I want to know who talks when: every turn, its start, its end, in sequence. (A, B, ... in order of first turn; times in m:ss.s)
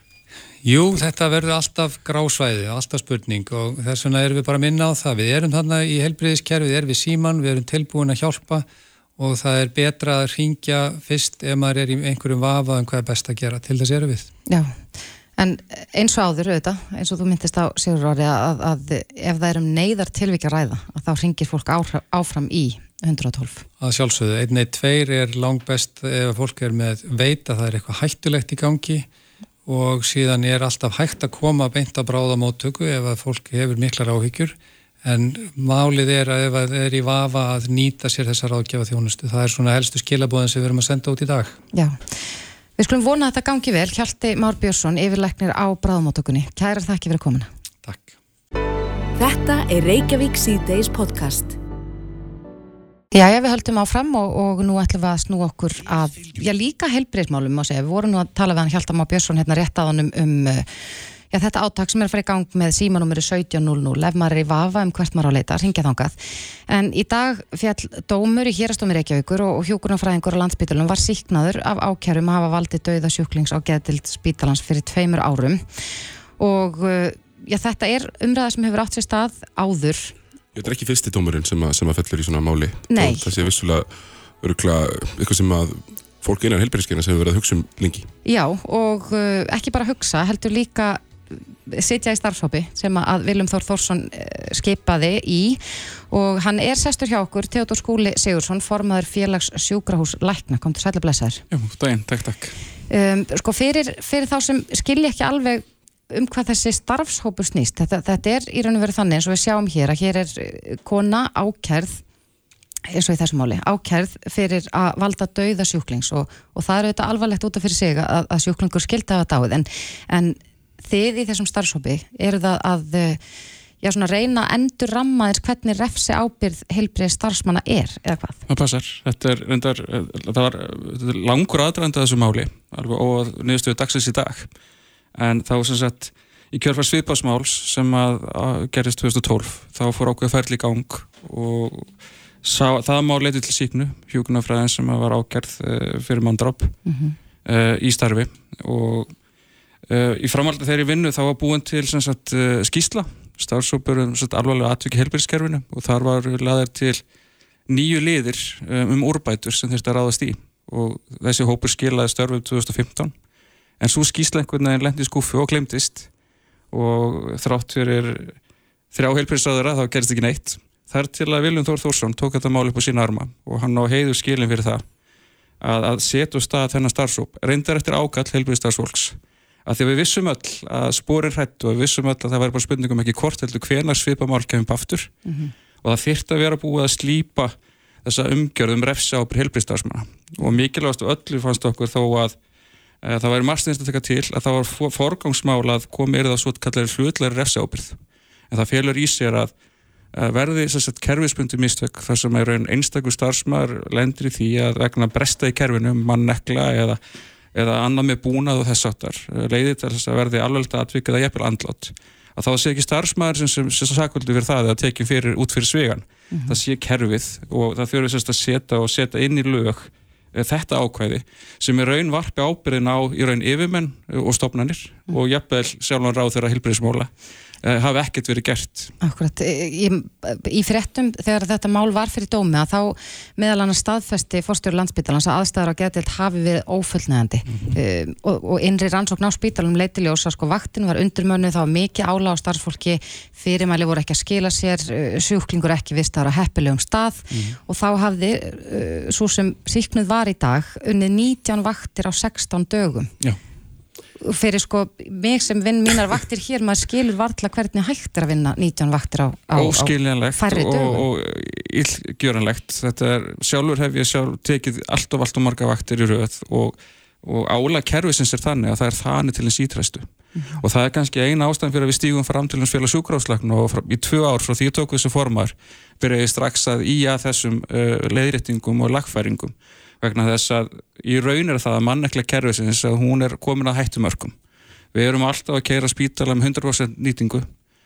0:00.6-0:08.6 A
0:09.2-0:14.3 A
0:14.5-0:14.8 B
0:15.4-0:23.6 B
0:23.8-0:29.0 A
0:29.6-0:41.6 A
0:41.7-0:42.2 B
0:42.8-0:47.5 B
0:47.8-0:48.1 A
0:49.2-0:51.6 C
0:53.1-1:00.7 B
1:01.3-1:06.2 B
1:06.7-1:15.6 B
1:16.4-1:20.1 B
1:20.5-1:23.9 D
1:22.9-1:23.2 B
1:24.4-1:28.1 D
1:28.2-1:41.4 B
1:41.5-1:42.6 E
1:42.9-1:52.0 B
1:52.9-2:03.2 B
2:03.8-2:08.4 B
2:08.5-2:14.5 E
2:15.2-2:21.9 E
2:22.4-2:26.7 E
2:26.8-2:27.2 B
2:27.4-2:29.1 E
2:29.9-2:37.0 E
2:37.7-2:43.1 E
2:43.8-2:46.1 E
2:46.7-2:48.4 E
2:48.9-2:54.8 E
2:55.6-3:05.1 E
3:05.8-3:07.5 E
3:08.0-3:12.4 E
3:13.0-3:18.0 E
3:18.5-3:19.5 E
3:20.1-3:27.0 E
3:27.5-3:47.1 E
3:47.6-3:48.9 E
3:49.0-4:13.1 B
4:14.2-4:21.0 B
4:19.5-4:30.1 E
4:30.4-4:30.6 B
4:30.6-4:44.3 E
4:44.9-4:47.5 E